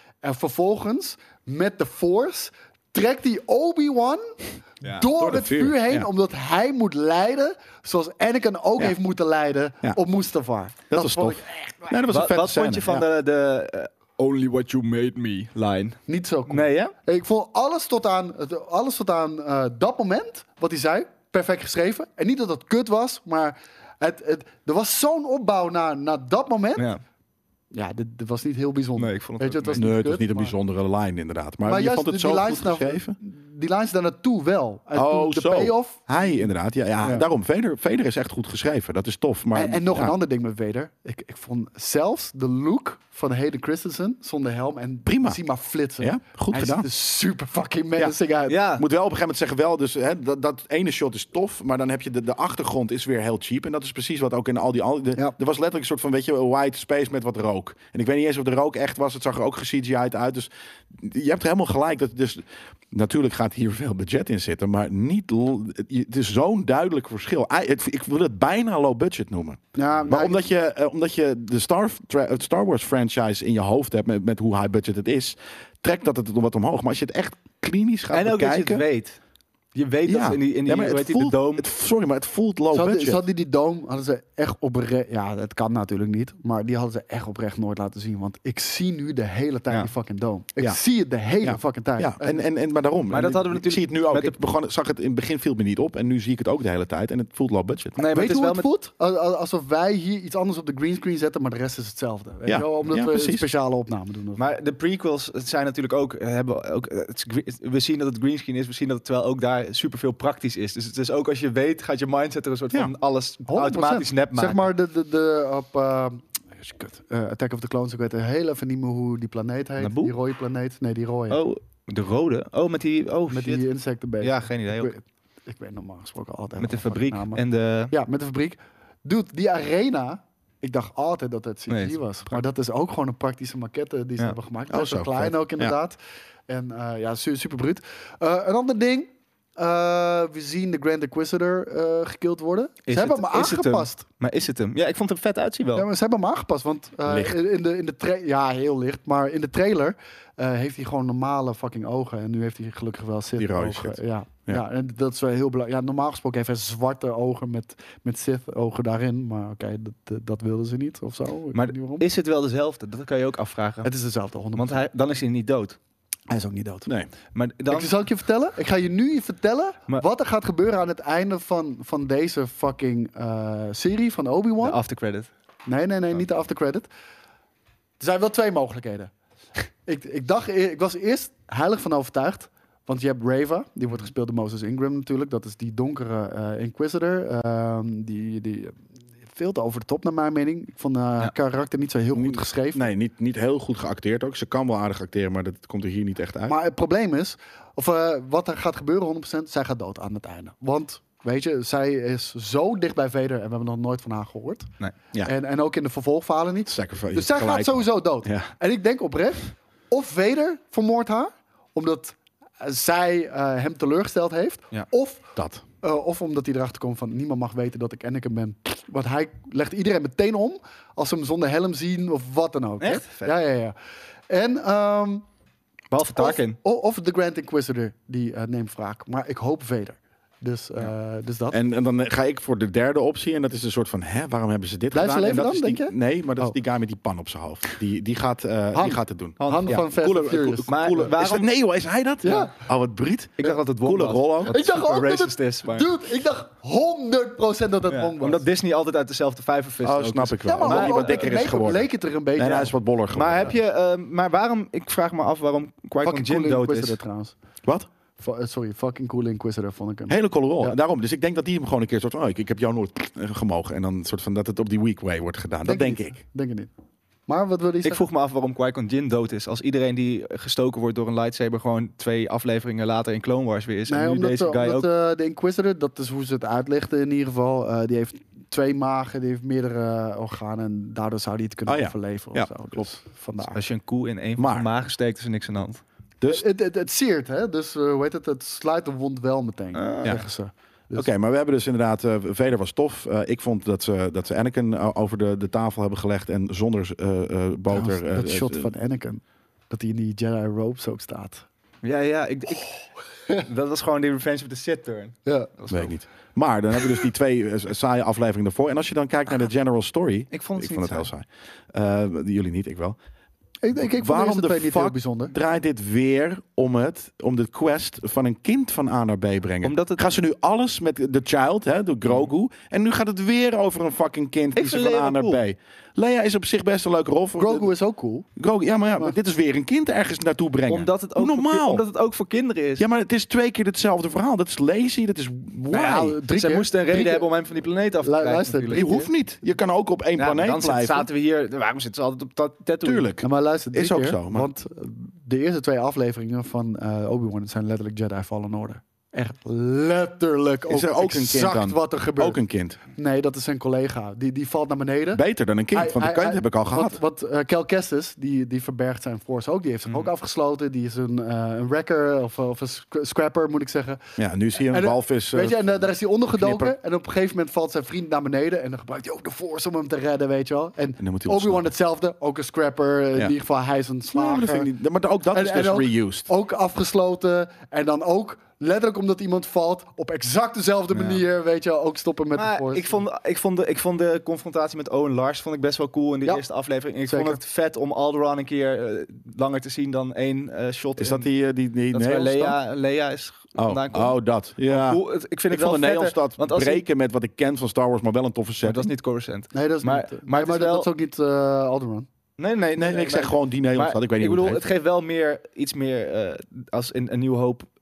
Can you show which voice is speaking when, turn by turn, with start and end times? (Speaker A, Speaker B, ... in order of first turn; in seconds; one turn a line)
Speaker A: 0.2-12.0
Speaker B: 5.2-6.1
Speaker B: 10.9-13.1
Speaker C: 12.1-16.9
Speaker A: 16.1-26.9
Speaker A: 27.7-30.5
Speaker C: 29.0-29.9
Speaker B: 29.8-33.2
Speaker A: 31.6-36.4
Speaker B: 35.0-40.1
Speaker A: 39.5-48.6
Speaker B: 45.1-45.4
Speaker B: 46.0-46.9
Speaker C: 48.5-48.9
Speaker B: 48.8-78.8
Speaker A: 69.8-70.4
Speaker C: 78.1-79.2
Speaker C: 79.8-81.7
Speaker B: 80.1-83.2
Speaker A: 82.7-92.5
Speaker B: 91.4-98.0
Speaker C: 93.1-94.4
Speaker C: 98.0-98.7
Speaker A: 98.1-104.5
Speaker B: 102.5-103.5
Speaker C: 104.4-114.7
Speaker A: 113.5-121.4
Speaker C: 119.8-120.1
Speaker C: 121.3-123.7
Speaker A: 123.3-136.0
Speaker C: 124.2-124.9
Speaker C: 126.6-127.9
Speaker C: 131.7-132.0
Speaker B: 134.7-135.7
Speaker A: 136.5-144.0
Speaker C: 142.9-145.9
Speaker A: 145.8-162.1
Speaker B: 147.1-147.4
Speaker B: 153.4-154.6
Speaker C: 161.5-163.9
Speaker A: 163.8-164.8
Speaker C: 164.6-165.8
Speaker A: 166.3-166.9
Speaker C: 167.3-167.9
Speaker A: 167.7-174.8
Speaker C: 174.6-175.3
Speaker A: 175.7-176.9
Speaker A: 178.0-179.1
Speaker A: 179.9-188.8
Speaker A: 189.3-192.9
Speaker B: 192.1-196.6
Speaker A: 196.5-204.7
Speaker A: 205.2-215.3
Speaker B: 206.7-208.5
Speaker B: 215.4-215.6
Speaker A: 215.8-223.8
Speaker C: 222.8-223.3
Speaker A: 224.3-225.2
Speaker C: 225.9-226.6
Speaker A: 226.1-231.6
Speaker B: 231.5-244.6
Speaker A: 234.9-236.6
Speaker A: 238.7-240.7
Speaker C: 239.4-239.8
Speaker C: 240.7-241.5
Speaker A: 242.2-242.5
Speaker C: 243.4-245.9
Speaker A: 244.5-248.4
Speaker C: 247.9-251.3
Speaker B: 249.8-253.5
Speaker A: 250.4-252.7
Speaker C: 253.1-257.0
Speaker A: 256.0-257.4
Speaker A: 258.2-260.8
Speaker B: 260.1-266.2
Speaker A: 265.6-266.7
Speaker A: 267.3-268.0
Speaker C: 267.8-274.9
Speaker A: 273.9-283.6
Speaker B: 281.7-282.9
Speaker C: 283.5-285.8
Speaker B: 284.4-284.7
Speaker A: 286.3-291.1
Speaker C: 289.8-290.2
Speaker B: 290.9-298.7
Speaker A: 297.7-301.5
Speaker C: 301.8-302.8
Speaker C: 303.4-305.9
Speaker B: 305.7-313.0
Speaker C: 310.3-311.1
Speaker A: 313.6-315.3
Speaker B: 313.8-327.7
Speaker C: 319.6-320.1
Speaker C: 324.6-325.4
Speaker A: 327.4-328.3
Speaker B: 328.4-331.8
Speaker C: 330.7-332.9
Speaker B: 332.8-336.1
Speaker A: 335.7-337.3
Speaker C: 335.7-339.0
Speaker A: 338.0-339.1
Speaker B: 338.7-341.1
Speaker C: 340.2-343.1
Speaker B: 342.8-344.5
Speaker A: 343.2-352.4
Speaker B: 350.7-352.8
Speaker A: 352.9-364.0
Speaker B: 355.1-357.0
Speaker B: 364.2-365.6
Speaker A: 364.6-374.7
Speaker B: 366.4-366.8
Speaker B: 371.0-371.7
Speaker B: 374.1-376.3
Speaker A: 375.3-383.0
Speaker C: 382.3-391.3
Speaker A: 387.1-387.4
Speaker B: 391.0-392.6
Speaker C: 391.9-396.9
Speaker B: 393.6-398.9
Speaker C: 398.6-400.9
Speaker A: 399.5-402.1
Speaker C: 402.4-407.7
Speaker B: 402.8-404.7